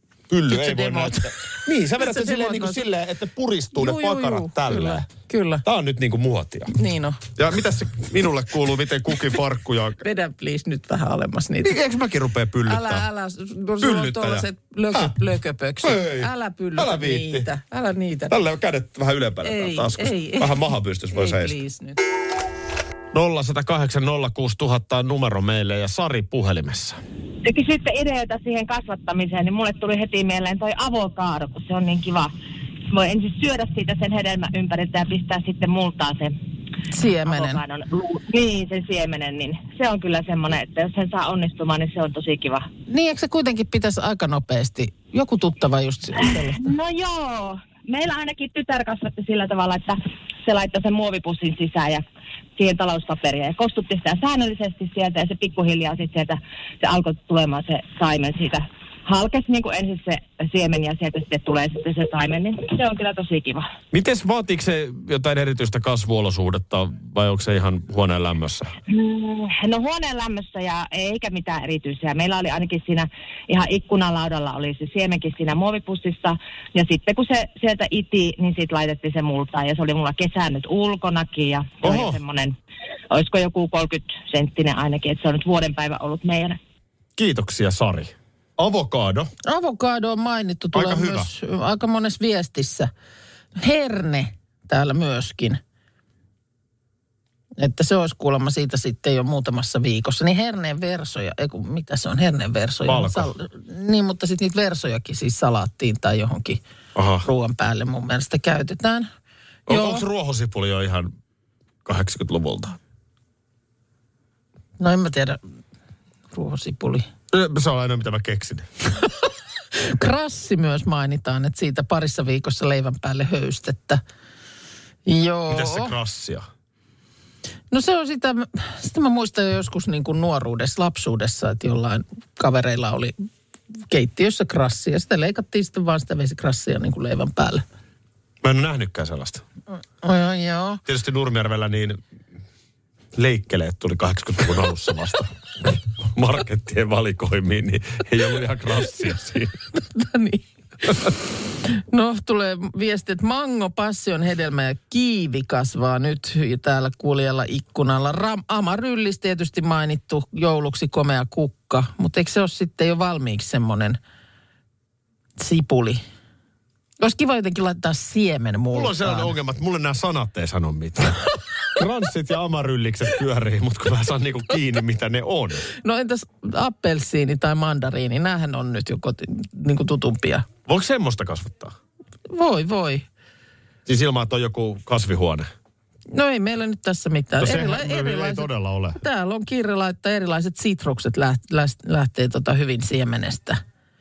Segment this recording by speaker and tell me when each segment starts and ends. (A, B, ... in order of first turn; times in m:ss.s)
0:00.3-0:05.0 A
0:00.5-0:02.8 B
0:03.8-0:05.6 B
0:05.6-0:06.7 A
0:06.7-0:07.2 B
0:07.4-0:10.0 A
0:10.0-0:11.8 B
0:11.6-0:13.0 A
0:12.6-0:18.4 B
0:13.8-0:15.1 A
0:15.8-0:17.5 A
0:18.3-0:21.5 A
0:19.4-0:22.0 B
0:23.1-0:27.0 A
0:27.4-0:32.3 C
0:32.9-0:36.3 C
0:36.9-0:37.6 B
0:37.2-0:42.7 C
0:42.9-0:46.7 B
0:46.6-0:52.0 C
0:52.6-1:03.7 C
1:03.9-1:08.7 A
1:08.9-1:22.5 C
1:21.8-1:22.2 A
1:23.1-1:26.6 C
1:27.2-1:29.3 A
1:29.4-1:32.9 B
1:30.7-1:31.3 A
1:33.6-1:35.6 B
1:37.6-1:46.6 B
1:42.8-1:43.3 A
1:46.9-1:47.3 A
1:47.2-1:49.1 B
1:49.7-1:51.1 A
1:49.7-1:50.0 B
1:51.8-1:52.8 A
1:54.8-1:55.4 B
1:56.3-1:57.1 B
1:57.3-1:58.7 A
1:59.7-2:04.0 B
2:05.0-2:05.9 B
2:05.5-2:06.4 A
2:07.7-2:13.1 B
2:13.9-2:17.6 B
2:18.4-2:19.4 A
2:20.0-2:20.8 B
2:20.8-2:22.0 A
2:23.1-2:29.6 A
2:29.7-2:30.9 B
2:31.6-2:44.0 B
2:45.4-2:46.0 B
2:47.0-2:49.3 B
2:48.7-2:55.6 A
2:55.8-3:00.5 B
3:00.6-3:01.7 A
3:02.3-3:03.0 B
3:03.8-3:05.5 A
3:06.1-3:13.6 B
3:07.4-3:09.0 A